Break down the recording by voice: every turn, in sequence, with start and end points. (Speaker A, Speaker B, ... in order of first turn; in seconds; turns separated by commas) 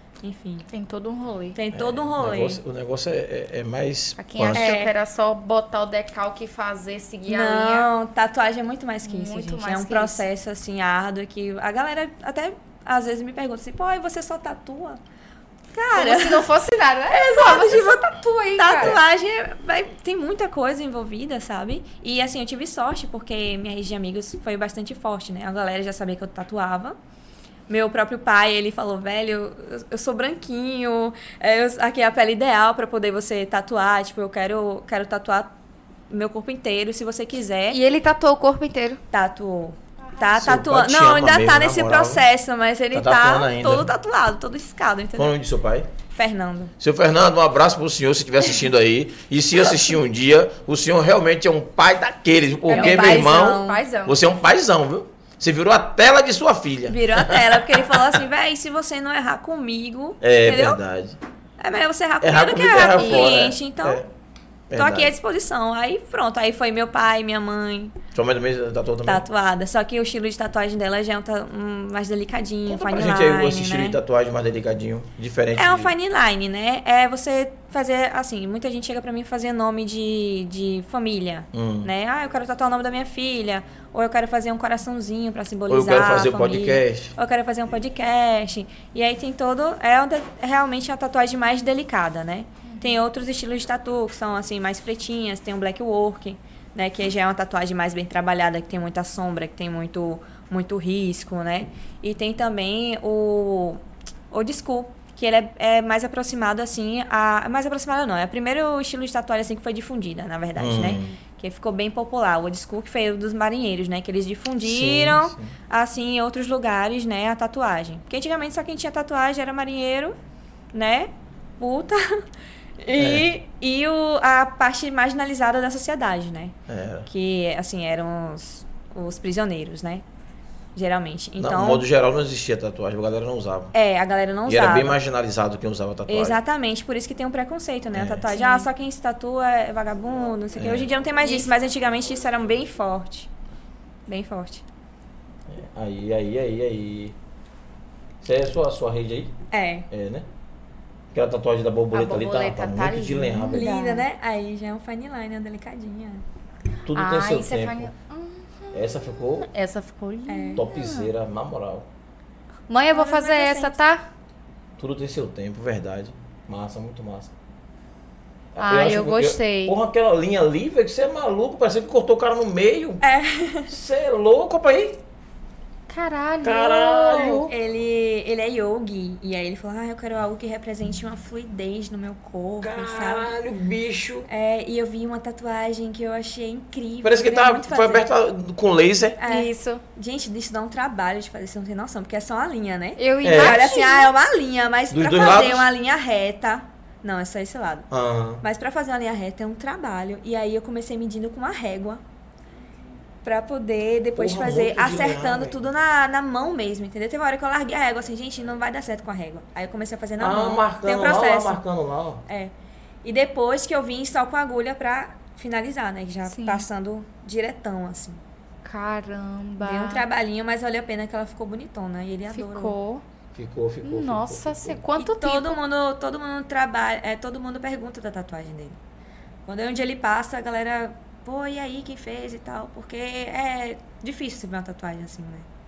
Speaker A: 0.2-0.7, Speaker B: 0.7-1.6, Speaker A: 1.6-2.6, Speaker C: 1.7-4.7, Speaker B: 4.2-7.9, Speaker A: 4.5-4.9, Speaker A: 7.3-15.0, Speaker B: 9.0-10.2, Speaker A: 15.7-16.5, Speaker B: 15.9-19.0, Speaker A: 17.1-27.0, Speaker A: 27.7-35.5, Speaker A: 36.1-37.8, Speaker B: 37.7-39.0, Speaker A: 39.1-45.3, Speaker C: 40.4-42.2, Speaker C: 42.9-43.9, Speaker C: 45.2-45.9, Speaker A: 46.1-46.7, Speaker C: 46.8-57.6, Speaker A: 52.7-53.8, Speaker B: 52.7-54.2, Speaker A: 56.9-60.8, Speaker C: 60.2-61.2, Speaker A: 61.6-64.0, Speaker C: 62.2-64.1, Speaker B: 62.9-63.5, Speaker C: 64.7-65.1, Speaker A: 64.7-68.0, Speaker C: 68.1-69.2, Speaker A: 69.0-74.0, Speaker C: 72.7-75.9, Speaker A: 75.5-120.2, Speaker C: 81.5-81.9, Speaker C: 85.7-87.1, Speaker B: 92.7-93.0, Speaker C: 110.6-111.2, Speaker C: 114.6-115.5, Speaker A: 120.7-122.2, Speaker A: 122.8-126.5, Speaker C: 123.0-123.3, Speaker C: 126.7-127.1, Speaker A: 127.1-130.0, Speaker A: 130.8-131.9, Speaker C: 131.4-133.7, Speaker A: 133.7-135.0, Speaker C: 134.5-136.4, Speaker A: 136.1-143.3, Speaker C: 137.9-138.3, Speaker B: 138.3-138.7, Speaker C: 140.6-140.9, Speaker B: 141.2-141.5, Speaker A: 144.1-144.6, Speaker C: 145.5-147.2, Speaker C: 148.2-149.3, Speaker A: 149.5-149.9, Speaker C: 149.9-150.3, Speaker C: 151.1-153.7, Speaker B: 151.9-154.1, Speaker A: 153.5-156.2, Speaker C: 156.9-157.9, Speaker B: 156.9-161.1, Speaker C: 158.7-159.5, Speaker A: 160.3-160.6, Speaker C: 160.6-161.9, Speaker B: 162.7-164.1, Speaker A: 162.9-163.8, Speaker C: 164.8-167.3, Speaker C: 168.6-173.0, Speaker B: 168.6-169.8, Speaker A: 173.0-173.8, Speaker C: 173.7-175.0, Speaker B: 175.9-177.5, Speaker C: 176.4-177.5, Speaker A: 177.5-183.3, Speaker C: 182.6-184.3, Speaker A: 184.3-188.1, Speaker C: 187.0-189.2, Speaker A: 189.2-197.9, Speaker B: 189.3-189.8, Speaker B: 193.0-194.1, Speaker C: 193.2-193.7, Speaker C: 194.9-195.7, Speaker C: 197.9-198.4, Speaker A: 198.4-202.0, Speaker A: 203.2-211.6, Speaker C: 204.2-205.6, Speaker C: 210.2-212.2, Speaker A: 213.0-218.2, Speaker B: 216.3-216.7, Speaker B: 218.7-220.0, Speaker A: 219.6-222.8, Speaker B: 222.3-223.0, Speaker C: 223.3-224.8, Speaker B: 223.8-225.6, Speaker A: 225.0-228.8, Speaker A: 229.5-235.5